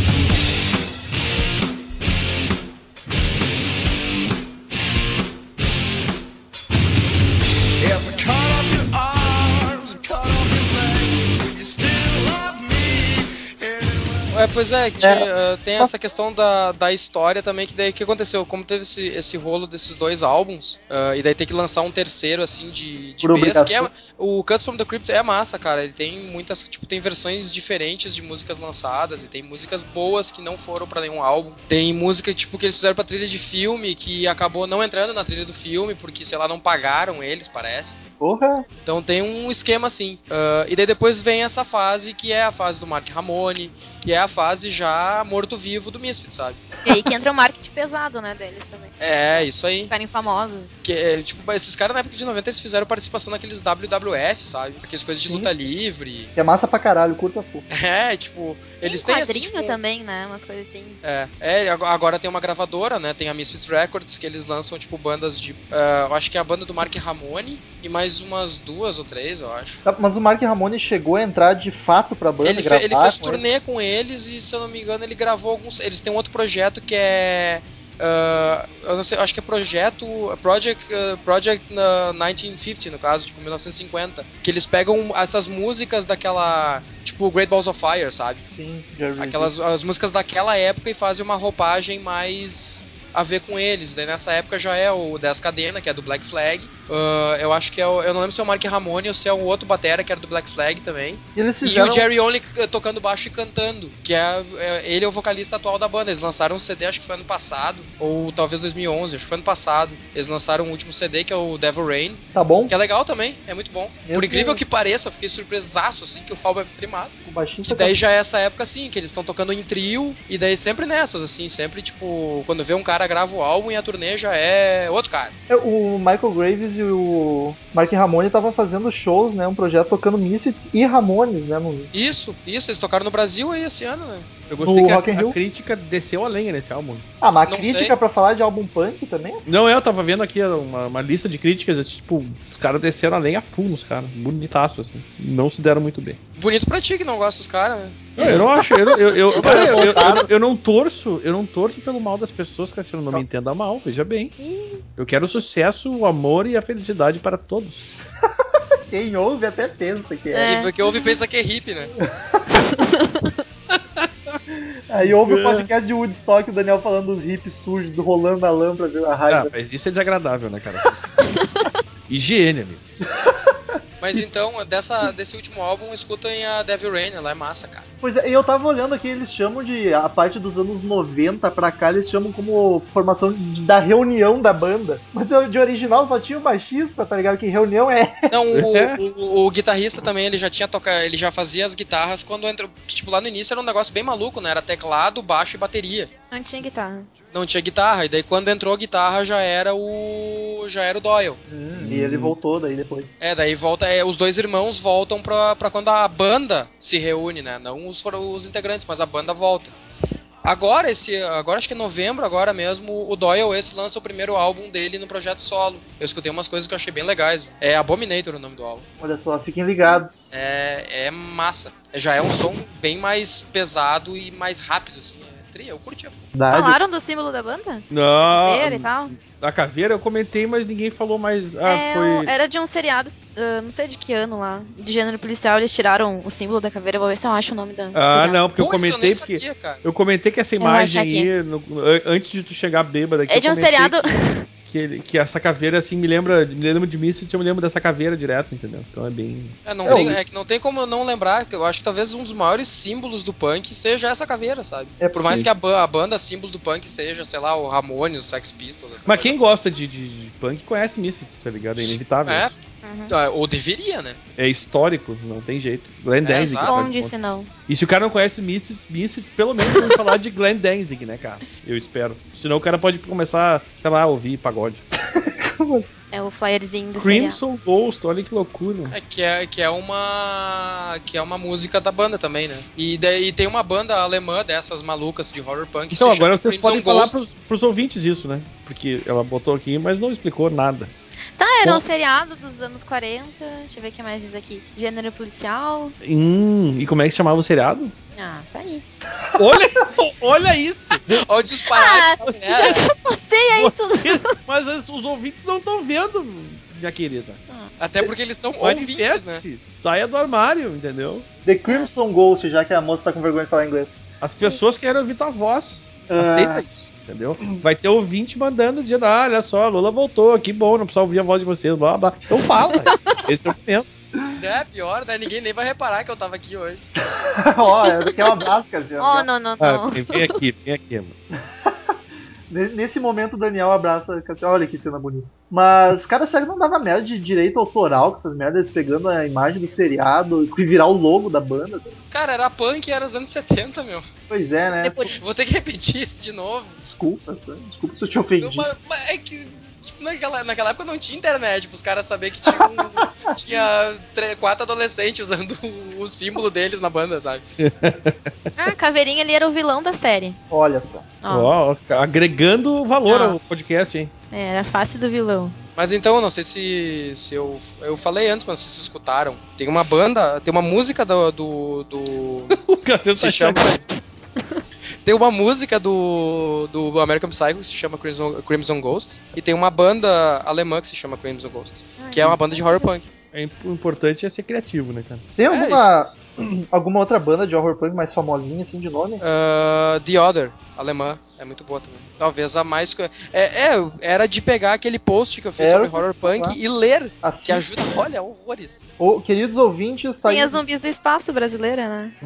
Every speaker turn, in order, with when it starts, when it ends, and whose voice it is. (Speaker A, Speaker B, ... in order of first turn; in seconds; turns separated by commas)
Speaker A: 7.8-14.4, Speaker B: 14.3-38.0, Speaker C: 15.0-15.3, Speaker C: 23.2-23.9, Speaker C: 38.2-38.6, Speaker B: 38.8-46.6, Speaker D: 46.8-50.7, Speaker B: 49.0-49.9, Speaker B: 50.8-56.3, Speaker C: 55.1-55.5, Speaker C: 56.4-57.6, Speaker B: 57.7-59.8, Speaker D: 58.8-61.0, Speaker B: 61.0-69.8, Speaker C: 69.8-73.4, Speaker B: 72.4-88.4, Speaker C: 88.5-89.5, Speaker B: 89.2-125.3, Speaker C: 101.3-102.1, Speaker C: 112.3-112.7, Speaker C: 114.0-114.6, Speaker C: 117.2-118.0, Speaker C: 125.5-131.9, Speaker B: 131.9-134.3, Speaker E: 134.5-137.1, Speaker C: 134.6-135.4, Speaker C: 137.2-139.4, Speaker B: 137.4-137.9, Speaker E: 139.4-146.2, Speaker B: 146.3-148.2, Speaker E: 148.2-154.3, Speaker C: 148.2-150.3, Speaker D: 154.4-154.8, Speaker E: 155.0-157.9, Speaker C: 158.9-160.7, Speaker D: 160.3-161.0, Speaker B: 160.4-161.9, Speaker C: 162.0-162.4, Speaker D: 162.8-163.3, Speaker E: 163.7-164.4, Speaker C: 164.9-169.5, Speaker E: 165.1-165.7, Speaker E: 169.3-171.0, Speaker D: 171.3-171.7, Speaker E: 172.1-172.8, Speaker C: 173.2-173.5, Speaker B: 174.0-177.8, Speaker C: 178.0-188.3, Speaker B: 188.3-196.1, Speaker E: 188.5-189.0, Speaker D: 196.3-197.1, Speaker B: 197.3-201.4, Speaker C: 201.5-203.1, Speaker E: 201.8-202.3, Speaker B: 203.2-209.7, Speaker B: 210.4-218.8, Speaker C: 219.0-220.3, Speaker B: 220.3-226.2, Speaker C: 226.3-226.8, Speaker D: 226.5-229.1, Speaker E: 227.9-232.3, Speaker D: 231.6-238.4, Speaker E: 237.9-244.0, Speaker B: 238.6-239.8, Speaker D: 240.6-241.3, Speaker D: 243.3-244.4, Speaker E: 244.6-249.5, Speaker B: 249.6-259.4, Speaker C: 249.8-250.2, Speaker C: 255.0-255.5, Speaker E: 259.0-262.4, Speaker B: 261.8-262.5, Speaker D: 262.8-263.1, Speaker B: 263.1-264.2, Speaker E: 264.4-267.1, Speaker B: 266.2-266.8, Speaker D: 266.4-267.5, Speaker E: 267.7-274.8, Speaker D: 269.7-269.9, Speaker C: 275.1-275.9, Speaker D: 276.1-277.4, Speaker E: 276.9-278.9, Speaker B: 278.9-287.2, Speaker E: 285.9-290.9, Speaker D: 291.4-295.9, Speaker E: 296.0-297.9, Speaker D: 298.1-298.8, Speaker E: 299.4-301.2, Speaker B: 301.1-302.8, Speaker D: 301.7-304.3, Speaker E: 302.2-302.9, Speaker E: 303.5-307.4, Speaker B: 307.8-309.4, Speaker E: 308.6-311.2, Speaker C: 311.4-314.0, Speaker E: 314.2-323.9, Speaker C: 316.1-316.6, Speaker D: 322.5-323.2, Speaker B: 324.4-326.8, Speaker C: 327.0-329.3, Speaker D: 327.7-328.4, Speaker D: 329.0-330.4, Speaker E: 329.6-331.1, Speaker C: 331.6-331.9, Speaker C: 332.5-342.0, Speaker B: 342.1-344.1, Speaker C: 344.3-345.1, Speaker D: 344.8-345.2, Speaker B: 345.2-346.8, Speaker C: 346.8-348.7, Speaker B: 348.4-357.4, Speaker E: 357.6-358.5, Speaker D: 358.6-360.4, Speaker C: 360.5-361.1, Speaker D: 361.2-361.5, Speaker E: 361.3-364.1, Speaker D: 363.1-363.4, Speaker D: 364.3-365.5, Speaker B: 365.8-373.8, Speaker E: 372.5-373.8, Speaker B: 375.0-383.1, Speaker D: 382.0-382.9, Speaker E: 383.3-385.2, Speaker C: 385.4-389.2, Speaker B: 385.5-385.9, Speaker B: 389.2-398.8, Speaker C: 395.6-396.6, Speaker C: 397.2-397.7, Speaker C: 399.0-400.6, Speaker D: 400.2-402.1